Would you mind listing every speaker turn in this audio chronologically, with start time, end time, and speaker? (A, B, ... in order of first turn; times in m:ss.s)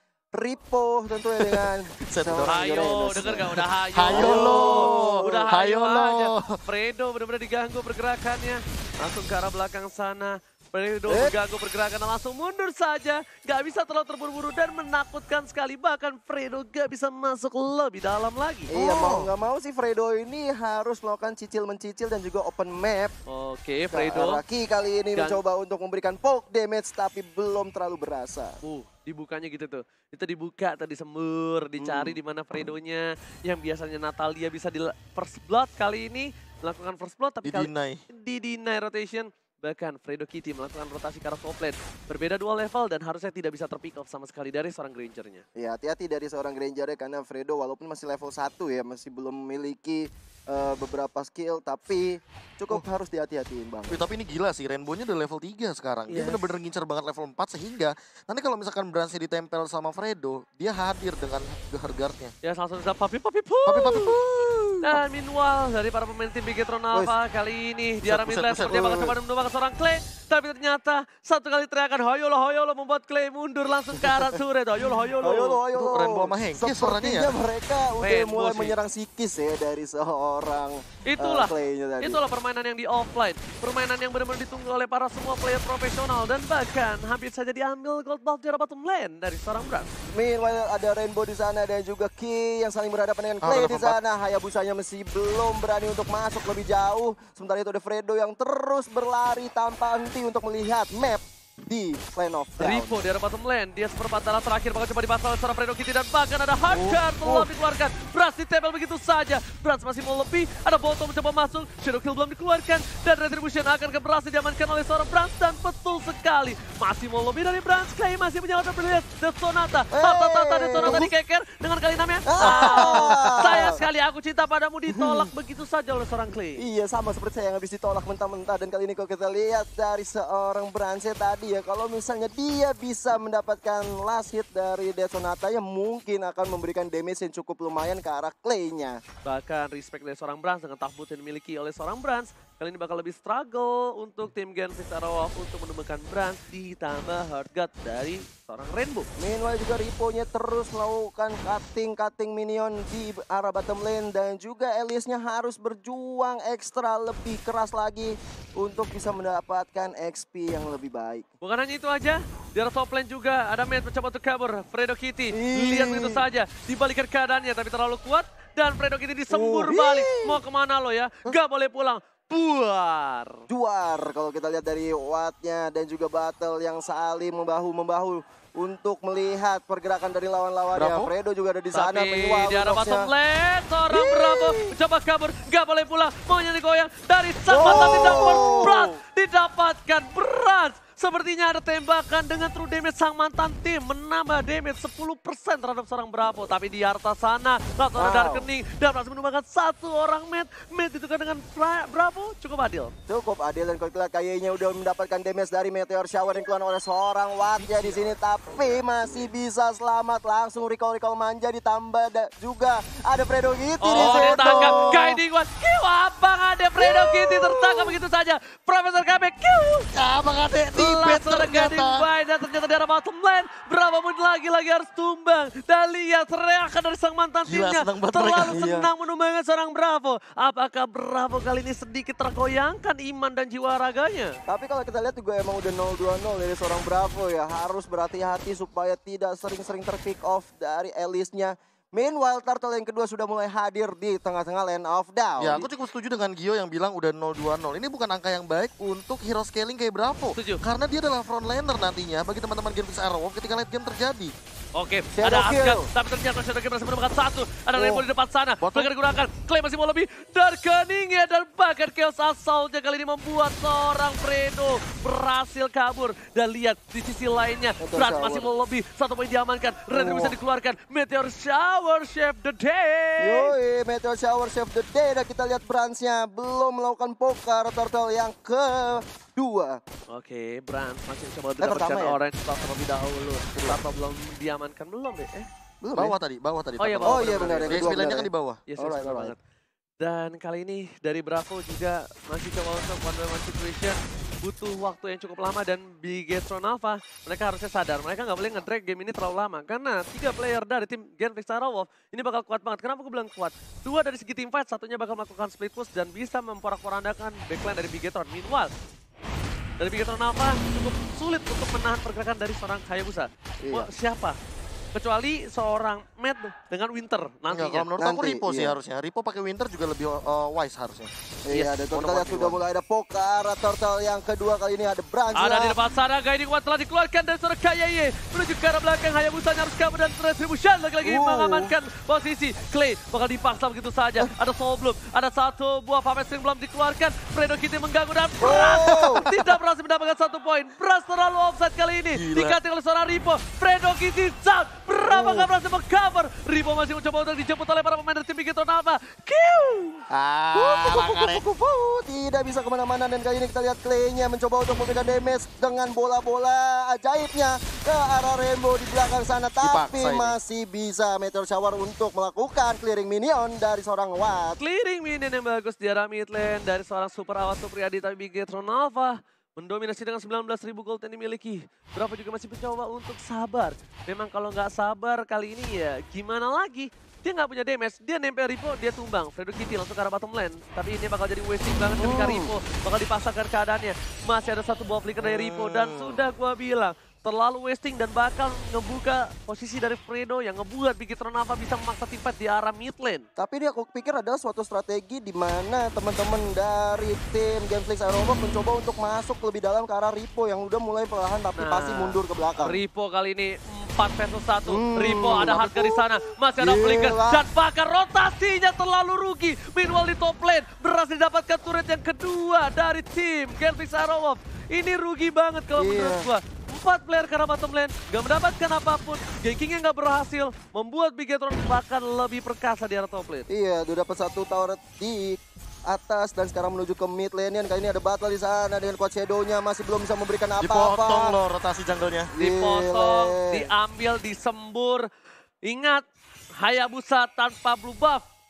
0:00.3-0:05.5 A
0:01.4-0:02.6 B
0:02.4-0:18.7 C
0:03.2-0:06.6 B
0:11.1-0:11.3 A
0:18.7-0:23.1 A
0:18.7-0:19.3 B
0:23.3-0:24.4 C
0:23.9-0:28.6 A
0:25.1-0:25.4 C
0:28.6-0:45.4 C
0:31.8-0:32.2 A
0:37.4-0:38.0 B
0:45.6-0:54.0 A
0:53.9-1:02.3 B
0:56.1-0:56.4 C
1:02.4-1:04.1 C
1:03.7-1:05.0 B
1:04.8-1:15.6 C
1:08.0-1:09.2 B
1:15.2-1:22.2 A
1:15.7-1:17.3 B
1:18.0-1:18.7 C
1:21.0-1:29.9 C
1:30.1-1:43.0 A
1:33.4-1:34.0 B
1:42.6-2:06.6 C
1:46.7-1:47.5 A
1:59.9-2:01.1 A
2:02.3-2:03.8 A
2:02.4-2:03.7 B
2:04.9-2:05.3 A
2:06.6-2:19.0 A
2:19.2-2:29.1 C
2:29.2-2:41.2 A
2:41.4-2:53.4 C
2:45.3-2:46.2 A
2:49.3-2:50.4 A
2:53.5-3:03.1 A
3:00.7-3:01.1 B
3:01.7-3:22.9 C
3:03.9-3:04.7 A
3:07.5-3:08.8 A
3:07.7-3:08.8 B
3:18.0-3:18.5 A
3:23.1-3:35.0 A
3:33.8-3:39.9 C
3:33.9-3:35.2 B
3:37.0-3:38.0 B
3:39.9-3:42.1 B
3:40.7-3:54.4 C
3:47.4-3:48.6 B
3:48.5-3:48.9 A
3:54.5-4:05.7 A
4:05.4-4:14.3 B
4:10.4-4:10.6 C
4:14.8-4:33.5 C
4:15.1-4:15.9 A
4:18.6-4:18.9 B
4:27.8-4:28.5 A
4:29.9-4:30.3 A
4:33.2-4:39.8 A
4:40.1-4:45.5 C
4:41.6-4:42.2 A
4:45.8-4:46.1 A
4:45.9-4:48.6 B
4:46.8-4:48.0 C
4:47.0-4:49.3 A
4:48.7-4:49.4 C
4:50.0-5:08.7 C
5:09.8-5:14.4 C
5:13.6-5:13.9 A
5:14.9-5:17.8 C
5:17.5-5:21.1 B
5:18.0-5:18.8 A
5:21.5-5:25.8 A
5:21.5-5:22.6 C
5:25.3-5:50.0 C
5:31.0-5:31.7 A
5:38.4-5:39.2 A
5:42.1-5:42.6 B
5:45.1-5:45.5 A
5:50.1-5:51.4 B
5:50.5-6:04.6 A
5:59.6-6:00.4 B
6:04.6-6:33.2 C
6:22.0-6:22.5 A
6:25.2-6:26.2 B
6:33.4-6:42.8 A
6:41.6-7:03.5 C
6:44.7-6:47.4 A
6:55.8-6:56.3 A
7:03.5-7:11.4 A
7:10.6-7:12.3 B
7:12.3-7:13.7 A
7:12.4-7:15.1 C
7:15.6-7:16.0 C
7:16.6-7:18.2 C